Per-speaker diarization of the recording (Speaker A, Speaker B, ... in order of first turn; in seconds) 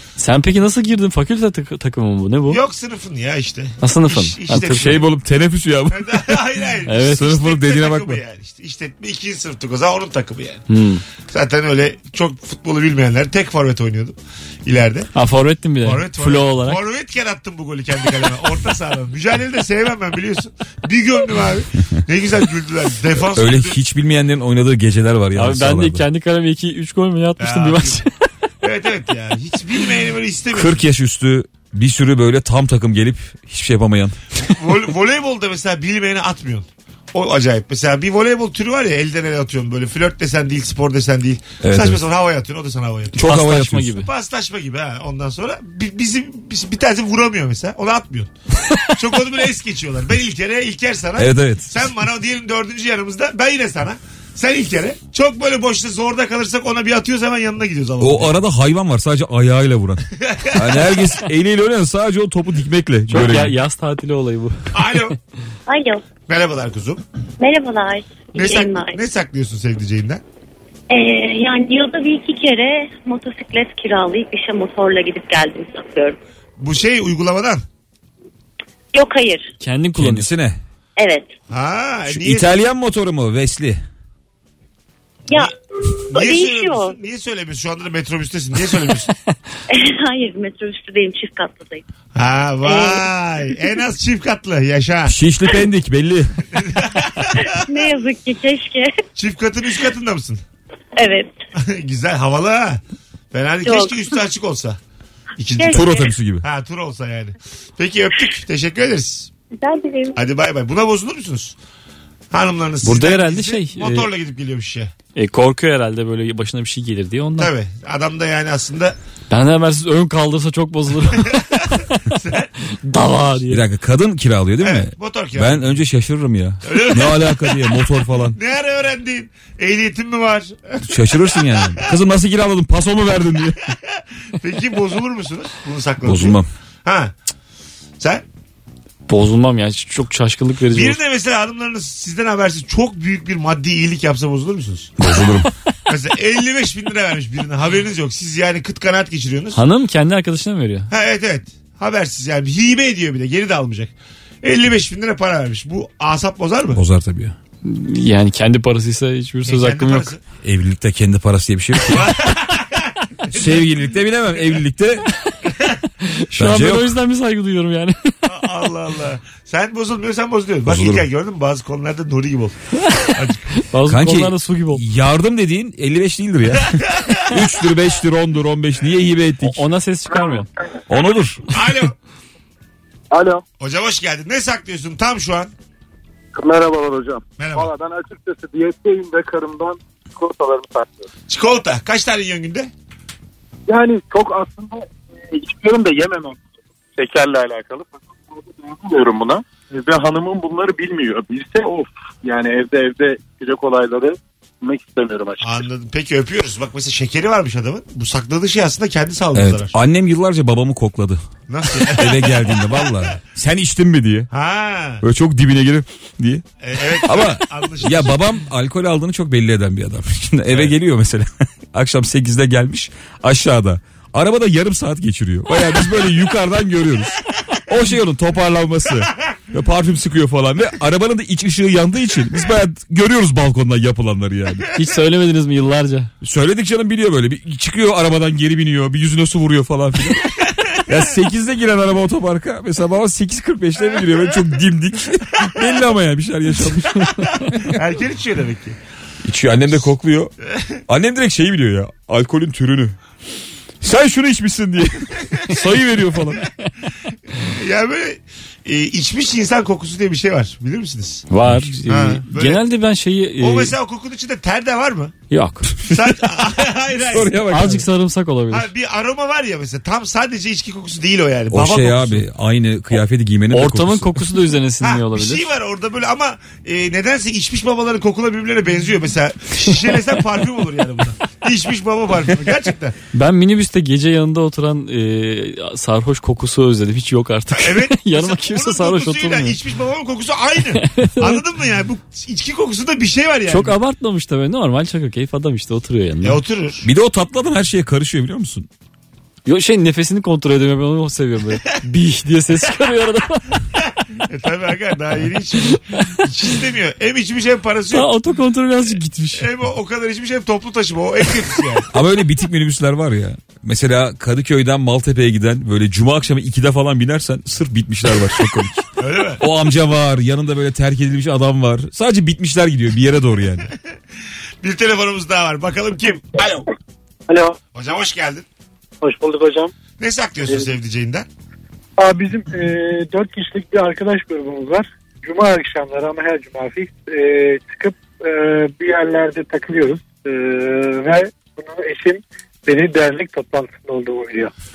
Speaker A: 0.2-2.6, 3.8-5.0, 6.9-7.2, 10.7-11.0, 15.1-16.8, 25.4-28.1, 43.1-44.1, 63.1-64.6, 79.6-80.3, 112.8-114.1, 115.2-117.5, 119.3-121.8, 122.8-123.6, 139.1-141.0, 149.6-150.9, 157.6-160.1, 166.0-168.1, 173.6-174.8, 179.4-180.5, 234.7-236.1, 246.9-247.5, 255.6-256.5, 261.3-263.7, 265.3-265.8, 267.5-268.7, 273.5-275.5, 283.1-289.6, 290.8-291.4, 293.5-296.4, 299.5-303.6, 307.9-309.5
Speaker B: 2.5-5.1, 5.9-10.7, 11.2-15.1, 15.8-23.8, 27.4-28.0, 28.6-30.8, 34.5-43.4, 43.9-48.3, 48.9-58.4, 60.2-61.0, 64.7-65.2, 66.3-67.0, 68.3-70.2, 76.6-77.6, 81.5-82.5, 86.1-89.1, 92.1-95.2, 96.5-97.6, 99.2-100.4, 101.6-102.8, 103.3-104.8, 105.4-109.3, 110.2-111.5, 112.3-114.9, 117.4-119.0, 121.2-122.5, 124.6-125.8, 126.7-131.8, 133.9-137.2, 140.7-144.9, 145.9-149.6, 150.9-156.8, 159.4-160.2, 161.9-163.8, 168.2-173.6, 176.8-177.3, 181.5-182.0, 183.6-185.5, 187.4-187.7, 191.3-192.7, 205.4-209.7, 211.5-213.1, 214.3-215.0, 216.6-218.2, 247.6-248.8, 250.5-250.8, 257.4-261.3, 261.9-262.6, 263.4-265.1, 265.9-267.8, 268.5-272.2, 274.8-283.0, 287.5-293.8, 296.2-296.9, 304.2-308.1, 309.4-311.9, 319.0-319.4, 324.6-326.7, 327.7-328.5, 330.0-331.3
Speaker C: 4.7-6.4, 7.0-8.2, 23.2-26.1, 30.5-34.2, 41.6-42.0, 43.2-43.9, 51.2-51.8, 58.0-63.6, 80.0-80.6, 82.1-83.8, 95.1-96.4, 105.7-106.5, 123.5-128.4, 130.8-133.7, 136.0-136.5, 145.0-145.5, 156.7-157.3, 160.4-162.2, 163.3-165.1, 166.4-167.0, 170.7-171.1, 173.9-179.6, 180.9-181.5, 209.3-211.2, 211.9-214.3, 215.0-234.7, 236.2-247.3, 249.2-250.3, 250.9-253.0, 253.8-256.4, 261.4-261.7, 265.9-266.2, 267.0-267.9, 271.5-274.3, 296.8-298.7, 311.9-318.9, 319.4-323.7
Speaker D: 65.7-66.1, 67.4-69.0, 70.9-76.2, 78.9-79.5, 81.0-81.3, 85.3-85.5, 86.1-87.0, 89.7-91.8, 92.6-93.1, 97.5-98.9, 101.0-101.3, 103.6-104.2, 105.6-106.2, 109.5-110.2
Speaker E: 183.1-183.4, 186.3-191.1, 193.7-196.4, 197.0-205.6
Speaker F: 327.3-327.6, 329.0-329.7, 332.0-344.5